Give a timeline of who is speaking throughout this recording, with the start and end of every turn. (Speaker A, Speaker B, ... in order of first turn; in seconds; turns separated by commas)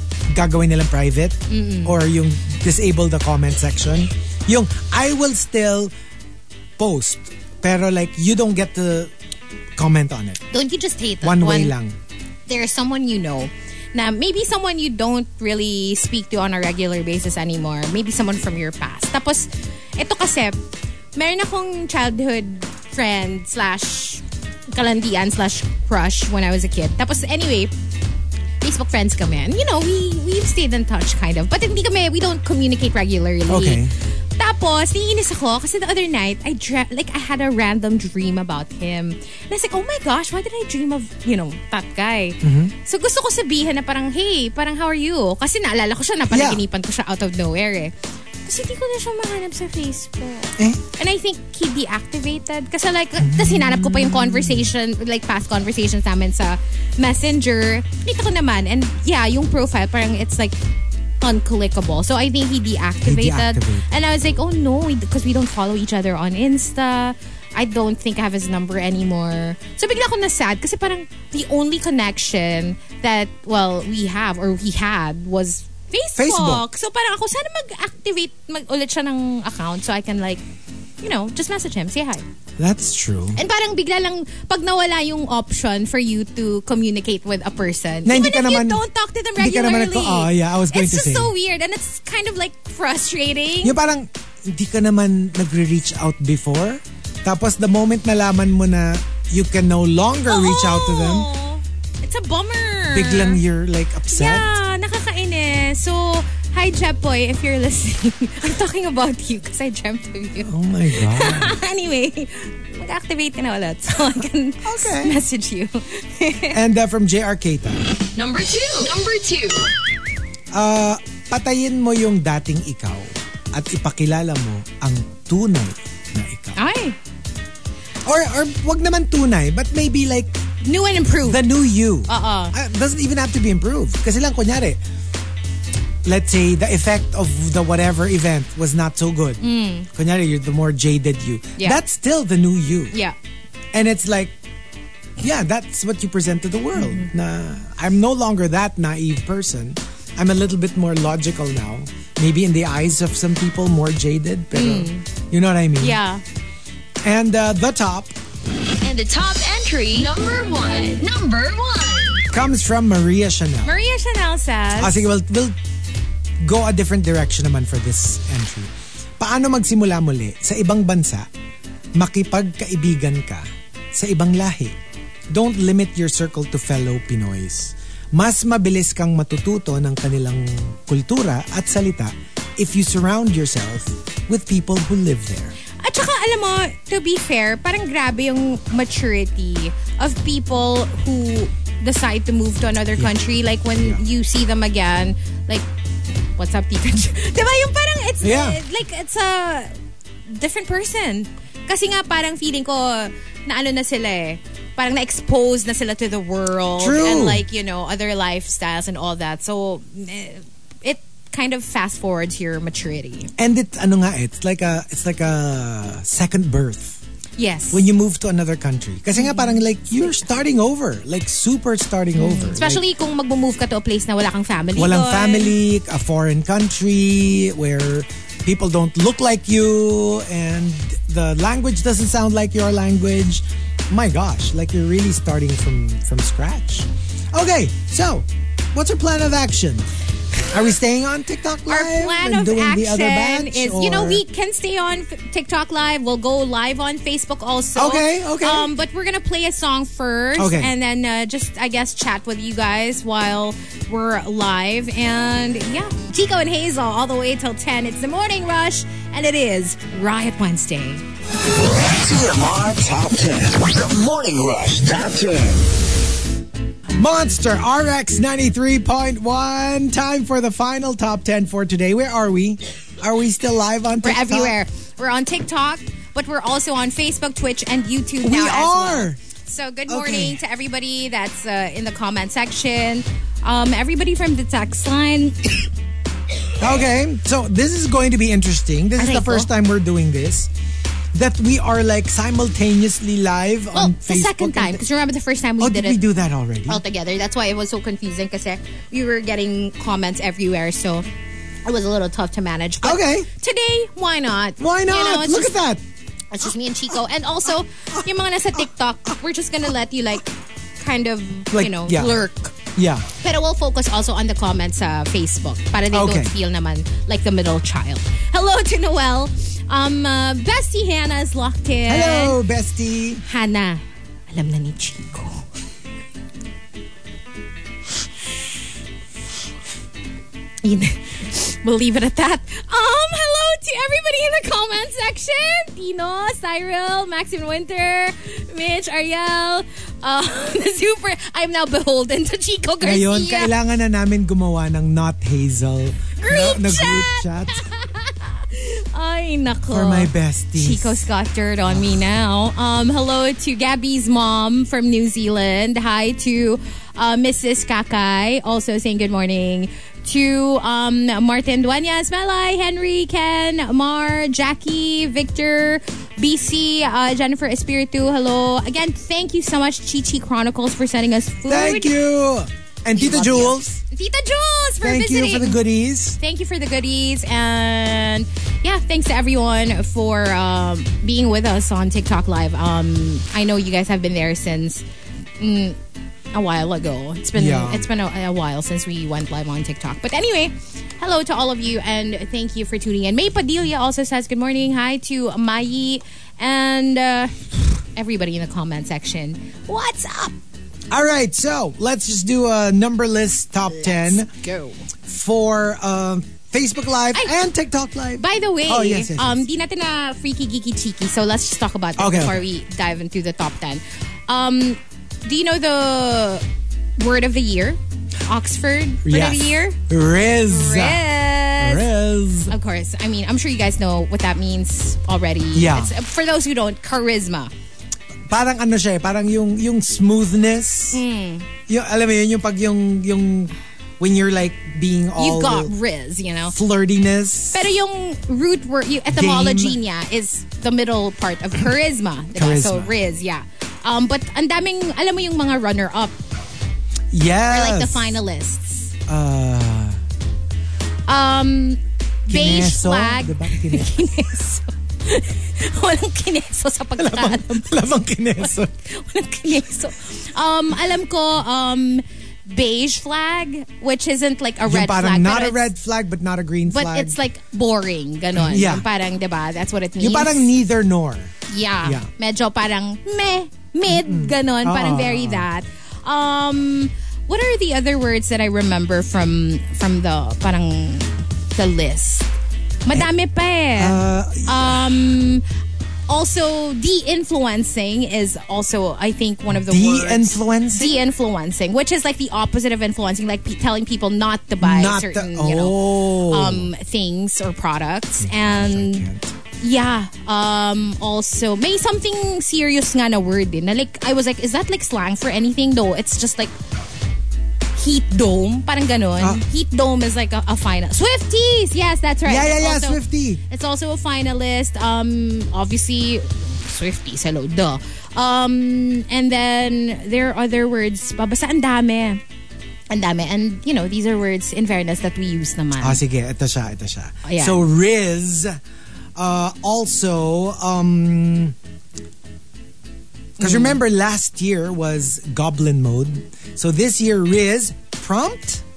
Speaker A: 0.3-5.9, Speaker B: 1.5-2.0, Speaker A: 6.8-9.1, Speaker A: 9.8-10.4, Speaker B: 10.5-11.7, Speaker A: 11.2-12.0, Speaker B: 12.5-20.6, Speaker B: 21.1-27.7, Speaker B: 28.6-47.9, Speaker A: 33.5-33.9, Speaker A: 42.4-42.7, Speaker A: 46.3-46.6, Speaker B: 48.5-60.6, Speaker A: 53.2-54.7, Speaker B: 61.2-80.4, Speaker A: 63.0-64.0, Speaker A: 76.2-76.6, Speaker B: 81.0-82.2, Speaker A: 82.6-83.4, Speaker B: 83.4-93.8, Speaker A: 88.0-88.8, Speaker A: 89.4-91.3, Speaker A: 93.6-101.3, Speaker B: 100.3-103.4, Speaker A: 102.9-104.5, Speaker B: 104.1-116.6, Speaker A: 110.4-111.6, Speaker A: 114.6-115.2, Speaker A: 116.5-117.9, Speaker C: 118.2-119.7, Speaker A: 120.5-126.6, Speaker B: 126.6-127.0, Speaker A: 128.1-130.4, Speaker B: 130.6-131.5, Speaker A: 131.2-134.8, Speaker B: 132.1-132.6, Speaker A: 136.0-142.9, Speaker B: 139.4-139.9, Speaker A: 143.7-144.3, Speaker A: 145.2-156.0, Speaker B: 146.8-147.1, Speaker B: 154.5-155.1, Speaker B: 155.8-156.2, Speaker A: 157.0-158.2, Speaker C: 158.8-162.2, Speaker A: 162.3-163.7, Speaker B: 163.7-165.0, Speaker A: 164.8-165.6, Speaker A: 166.4-171.3, Speaker A: 172.0-174.8, Speaker A: 175.3-185.6, Speaker B: 185.8-195.7, Speaker B: 196.4-199.7, Speaker A: 198.2-198.6, Speaker B: 200.3-213.3, Speaker A: 206.8-207.4, Speaker A: 213.4-217.0, Speaker B: 217.4-217.9, Speaker A: 217.7-222.8, Speaker B: 219.2-219.6, Speaker B: 222.2-225.6, Speaker A: 224.8-239.9, Speaker A: 240.5-244.2, Speaker B: 241.7-261.0, Speaker A: 247.8-248.7, Speaker A: 250.4-250.7, Speaker D: 261.5-265.7, Speaker A: 267.0-274.5, Speaker B: 274.0-285.7, Speaker A: 278.2-279.2, Speaker A: 279.9-280.4, Speaker A: 286.6-290.5, Speaker B: 289.0-289.5, Speaker A: 291.1-294.8, Speaker B: 293.7-296.0, Speaker A: 295.6-296.8, Speaker B: 296.7-301.1, Speaker B: 301.6-305.6, Speaker A: 302.8-303.3, Speaker A: 304.6-305.8, Speaker B: 306.3-312.6, Speaker A: 311.5-312.2, Speaker A: 312.8-313.1, Speaker B: 313.2-322.4, Speaker A: 315.9-316.3, Speaker A: 321.9-323.2, Speaker B: 323.2-325.5, Speaker B: 330.6-343.5, Speaker A: 342.8-347.7, Speaker B: 346.2-371.9, Speaker A: 349.7-351.1, Speaker A: 371.5-373.8, Speaker B: 373.0-375.6, Speaker A: 374.8-376.2, Speaker B: 376.2-384.8, Speaker B: 385.4-385.8, Speaker B: 386.3-400.4, Speaker A: 387.4-387.9, Speaker A: 400.9-404.3, Speaker B: 403.8-404.8, Speaker A: 405.1-409.4, Speaker B: 408.2-416.4, Speaker A: 412.0-412.4, Speaker B: 417.0-419.8, Speaker A: 419.1-422.5, Speaker B: 420.5-421.9, Speaker B: 422.5-427.5, Speaker A: 425.5-425.9, Speaker A: 428.3-431.0, Speaker B: 430.9-431.5, Speaker A: 431.7-435.7, Speaker B: 435.2-436.5, Speaker A: 436.5-437.7, Speaker B: 437.5-446.2, Speaker A: 439.1-439.8, Speaker A: 442.4-443.0, Speaker A: 447.1-448.2, Speaker B: 447.5-448.9, Speaker A: 449.1-450.0, Speaker B: 451.1-457.8, Speaker A: 452.3-454.3, Speaker A: 457.0-458.7, Speaker B: 458.8-465.7, Speaker A: 464.7-467.2, Speaker B: 466.7-470.5, Speaker A: 468.4-468.9, Speaker A: 470.0-472.1, Speaker B: 471.5-482.3, Speaker A: 473.9-475.5, Speaker B: 482.9-485.4, Speaker A: 483.8-484.9, Speaker B: 486.1-499.1, Speaker A: 489.5-491.0, Speaker A: 494.6-496.7, Speaker A: 498.2-499.3, Speaker B: 499.6-506.5, Speaker B: 507.8-522.2, Speaker A: 509.2-509.4, Speaker A: 512.2-513.4, Speaker B: 522.9-526.0, Speaker A: 525.8-528.6, Speaker B: 527.2-527.6, Speaker A: 529.2-531.6, Speaker A: 533.4-538.6, Speaker B: 533.4-533.8